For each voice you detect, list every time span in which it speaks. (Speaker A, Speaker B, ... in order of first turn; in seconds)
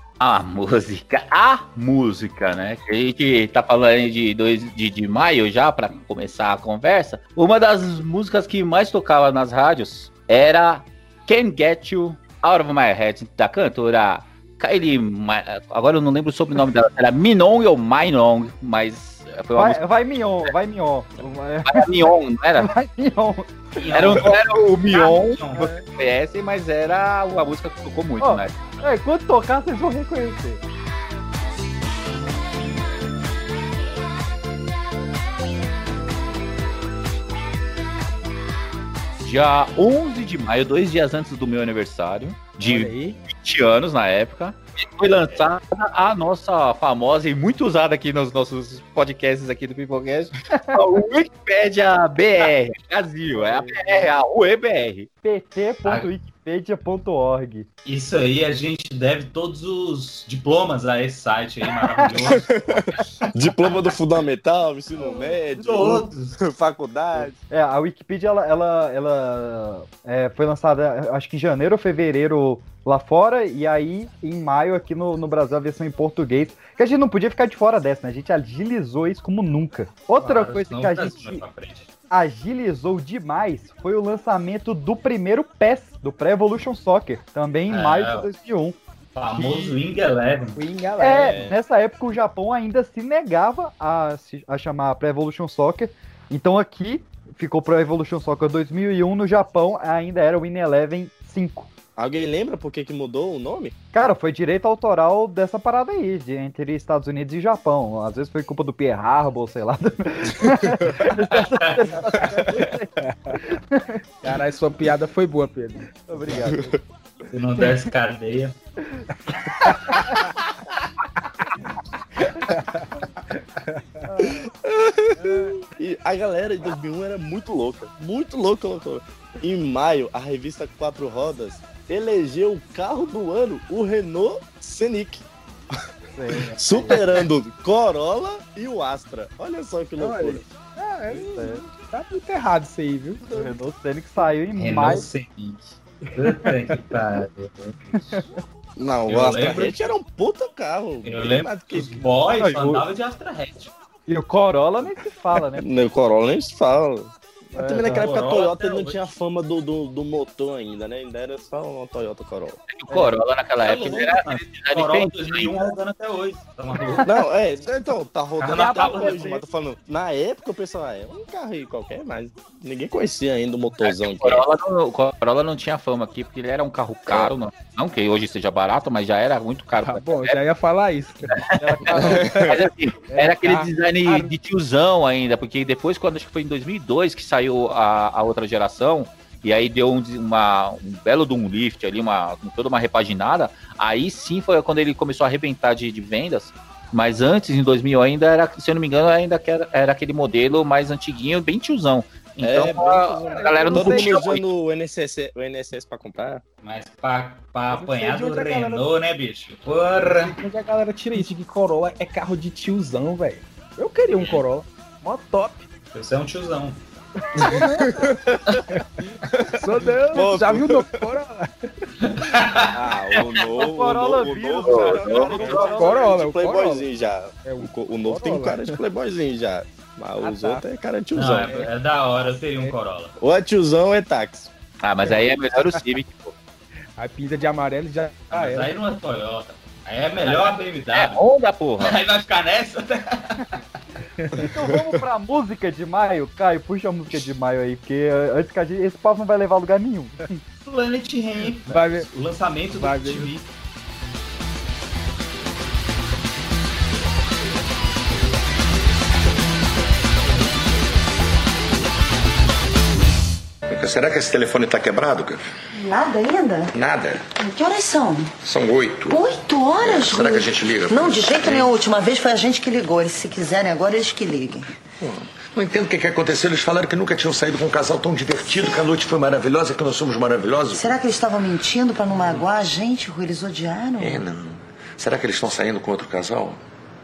Speaker A: 0.2-19.8, 21.6-22.7, 23.9-28.8, 39.2-55.1, 162.7-165.7, 173.8-180.4, 181.2-204.4, 224.7-225.6, 234.8-236.3, 240.9-242.0
Speaker B: 19.6-24.1, 25.6-25.8, 28.2-30.6, 53.4-54.0, 55.2-57.7, 65.0-65.4, 67.2-81.4, 82.1-88.8, 89.3-89.8, 91.0-101.7, 103.9-113.9, 116.1-116.7, 124.1-124.4, 136.1-136.9, 141.1-141.6, 143.3-145.1, 147.9-148.3, 152.4-152.8, 154.1-155.6, 157.5-158.0, 162.9-163.1, 168.5-169.4, 181.6-182.3, 223.6-226.0, 244.5-250.4
Speaker C: 23.8-25.6, 57.9-62.4, 63.6-63.9, 65.6-66.4, 80.2-81.9, 87.7-88.3, 89.1-90.6, 111.3-111.8, 117.3-118.5, 144.6-147.7, 149.1-149.9, 151.0-153.7, 157.8-159.0, 163.6-167.0, 168.4-169.3, 206.6-210.4, 214.2-214.4, 215.9-216.8, 222.0-222.7, 231.1-233.1, 238.3-241.2, 241.8-243.4, 250.7-253.4
Speaker D: 42.6-43.2, 90.5-91.5, 113.0-113.4, 114.2-115.9, 119.7-120.3, 122.5-122.9, 125.2-125.5, 140.0-143.5, 179.8-184.2, 203.2-204.2, 207.7-208.9, 210.0-215.7, 217.5-217.9, 219.6-221.7, 225.6-226.8, 227.4-228.8, 230.2-230.6, 232.3-232.7, 235.1-235.8, 237.0-238.7, 244.2-244.5, 251.7-252.1, 252.7-253.3
Speaker E: 62.2-67.4, 91.2-91.5, 102.0-103.7, 116.4-116.8, 124.6-135.2, 136.6-140.4, 148.8-152.0, 155.6-162.6, 167.0-174.4, 177.1-177.3, 181.9-182.6, 202.4-206.4, 218.1-218.6, 220.1-221.0, 222.7-231.7, 233.2-234.5
Speaker F: 263.7-265.4, 266.7-267.2, 268.4-269.2, 269.8-271.7, 275.0-280.9, 284.0-286.6
Speaker G: 265.8-266.7, 267.4-268.3, 269.1-274.7, 280.8-284.2